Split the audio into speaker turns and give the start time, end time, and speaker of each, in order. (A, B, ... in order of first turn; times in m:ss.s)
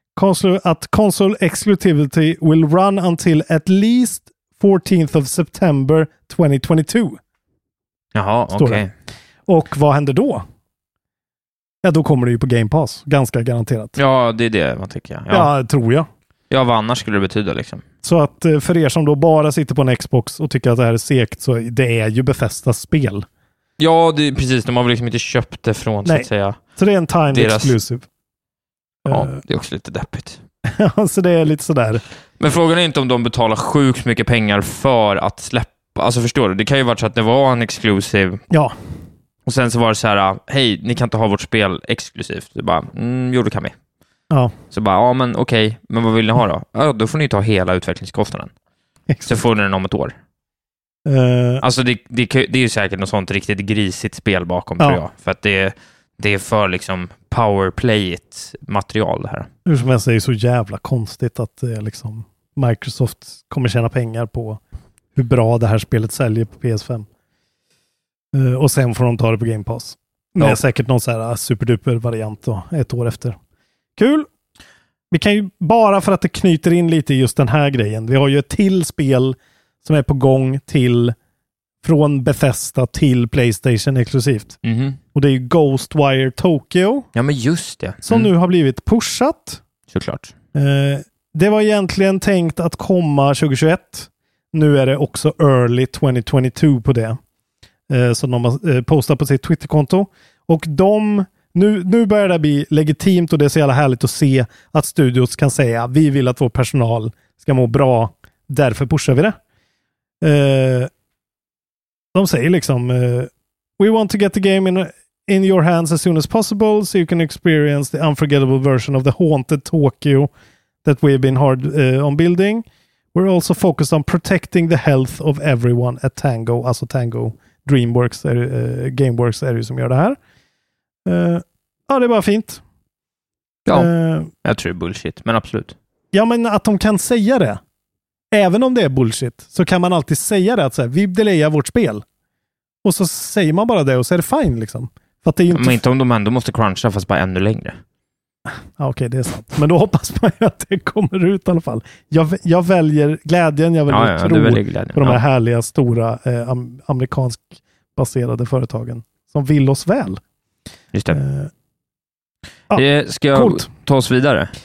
0:00.2-0:07.2 A
0:08.1-0:08.9 B
0:08.5-0:08.9 A
0:09.5-0:10.4 A
0:11.8-0:13.9 A
0:14.0-0:15.5 B
0:15.3-0:16.1 A
0:16.5-0:17.8 B
0:18.0-0:23.2 A
0:23.8-0:26.6 B
0:26.0-0:28.1 A
0:27.3-0:27.8 B
0:29.0-0:29.4 A
0:29.1-0:30.4 B
0:30.6-0:32.0 A
0:32.4-0:38.4 B
0:39.4-0:43.7 B
0:44.7-0:48.5 B
0:49.1-0:49.4 A
0:49.2-0:50.1 B
0:51.0-0:51.6 A
0:51.6-0:59.5 B
0:59.6-1:04.6 A
1:05.1-1:07.1 A
1:08.3-1:13.4 A
1:14.0-1:14.3 A
1:15.1-1:21.1 A
1:21.8-1:24.6 A
1:24.6-1:25.0 B
1:25.1-1:27.1 A
1:27.1-1:28.3 B
1:28.0-1:29.6 A
1:29.9-1:30.3 B
1:30.5-1:37.2 A
1:37.9-1:49.4 A
1:50.2-1:50.9 A
1:52.1-2:00.3 A
2:00.8-2:10.2 A
2:11.0-2:12.6 A
2:13.7-2:14.3 A
2:14.4-2:15.7 B
2:16.1-2:17.6 A
2:18.3-2:22.0 A
2:22.8-2:25.8 A
2:25.5-2:27.8 B
2:28.5-2:40.2 A
2:33.9-2:35.2 B
2:40.9-2:41.2 B
2:41.1-2:41.5 A
2:42.7-2:43.7 A
2:42.7-2:44.5 B